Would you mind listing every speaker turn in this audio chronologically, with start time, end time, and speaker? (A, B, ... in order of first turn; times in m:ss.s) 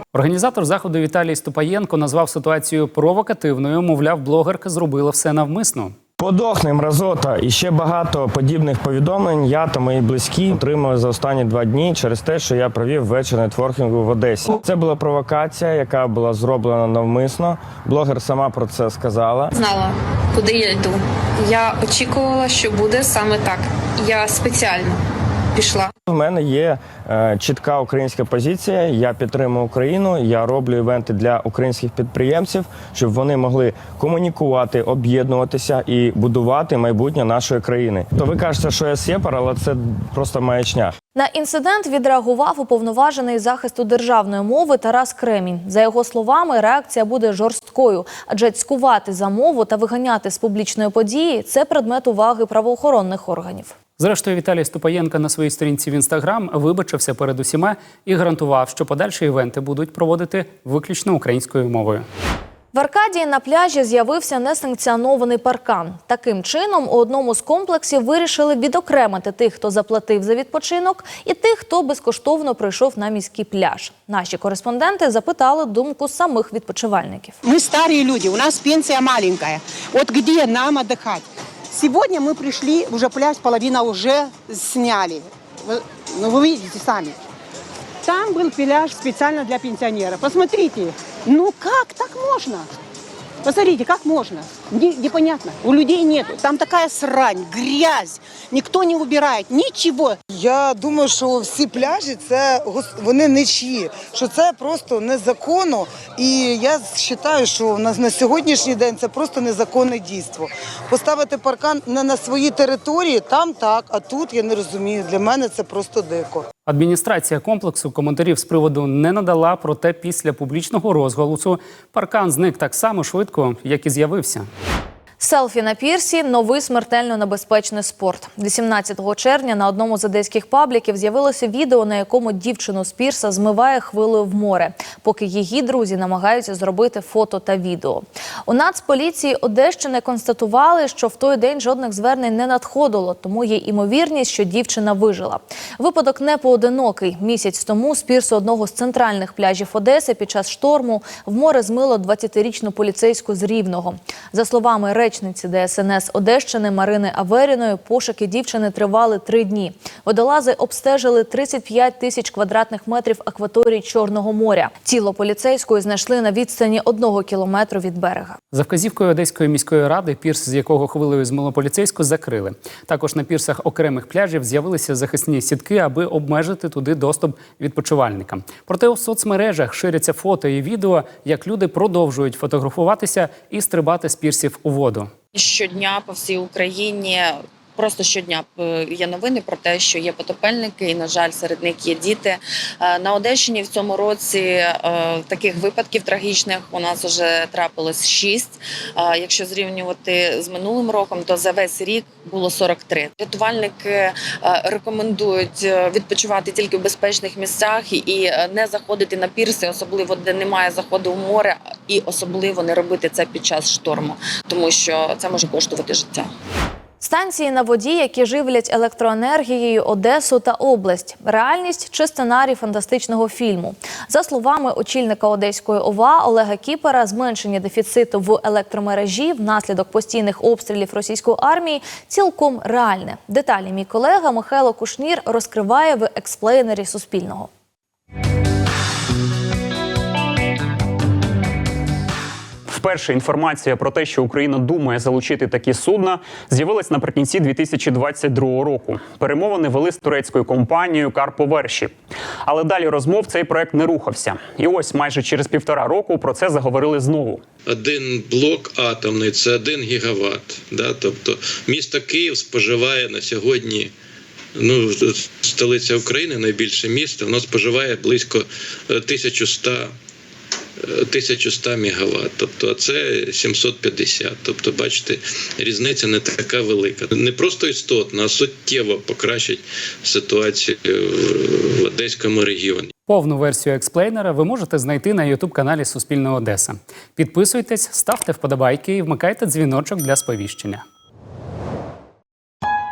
0:00.1-0:05.9 A
0:06.2-0:19.5 B
0:19.6-0:25.0 C
0:25.6-0:25.9 C
0:26.1-0:40.9 B
0:41.1-0:53.7 D
0:54.0-1:02.0 A
1:02.7-1:17.4 D
1:17.4-1:21.2 E
1:22.1-1:25.2 E
1:26.2-1:27.1 E
1:28.7-1:32.6 E
1:33.9-1:34.6 E
1:35.2-1:36.0 E
1:39.2-1:40.1 E
1:40.4-1:56.4 F
1:56.7-2:04.5 A
2:05.2-2:48.4 D
2:48.5-3:05.1 A
3:05.3-3:36.3 G
3:37.0-3:57.5 D
4:02.7-4:17.4 H
4:17.7-4:23.9 I
4:24.5-4:29.9 I
4:30.8-4:42.9 I
4:43.1-4:50.8 A